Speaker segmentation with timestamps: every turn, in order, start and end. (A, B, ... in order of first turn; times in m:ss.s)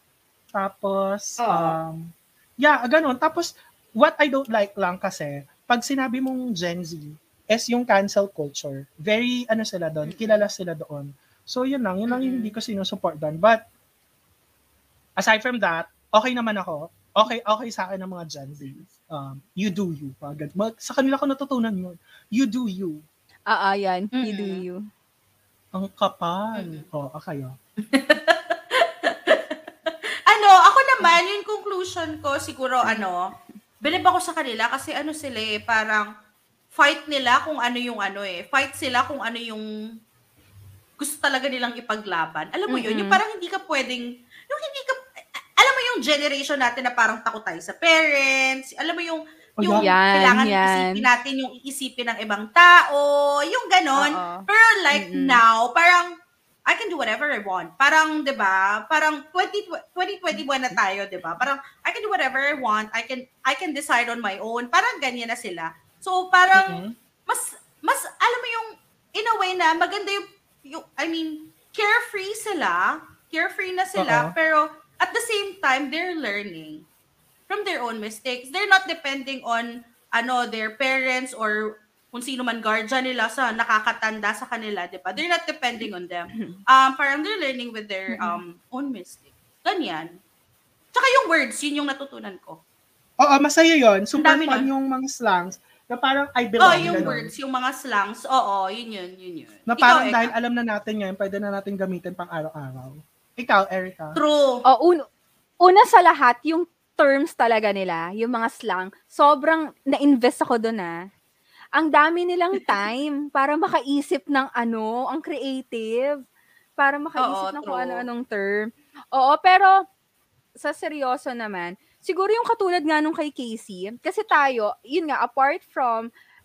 0:00.6-0:13.6 A
0:01.4-0:01.8 B
0:10.1-0:10.5 B
0:12.1-0:12.5 C
0:15.2-0:23.0 A
0:23.5-0:24.8 C
0:24.1-0:24.6 B
0:25.7-0:27.6 A
0:26.6-0:26.9 B
0:27.8-0:33.3 B
0:32.8-0:33.1 C
0:33.8-0:36.1 B
0:36.7-0:39.7 B
0:41.0-0:56.1 B
0:42.7-0:43.2 C
0:49.6-0:49.9 A
0:49.8-0:51.1 C
0:54.0-0:55.4 C
0:56.7-1:16.9 B
1:06.5-1:07.0 A
1:14.0-1:14.3 A
1:17.5-1:30.2 B
1:26.3-1:26.6 C
1:28.1-1:28.4 C
1:30.9-1:32.6 B
1:33.2-1:37.3 A
1:34.2-1:34.7 B
1:36.6-1:40.4 B
1:36.7-1:37.1 C
1:39.7-1:44.2 A
1:44.2-1:44.6 B
1:44.7-1:45.0 C
1:45.6-1:50.9 C
1:51.8-1:56.2 C
1:56.8-1:59.7 C
1:57.2-1:58.1 B
2:00.6-2:06.1 C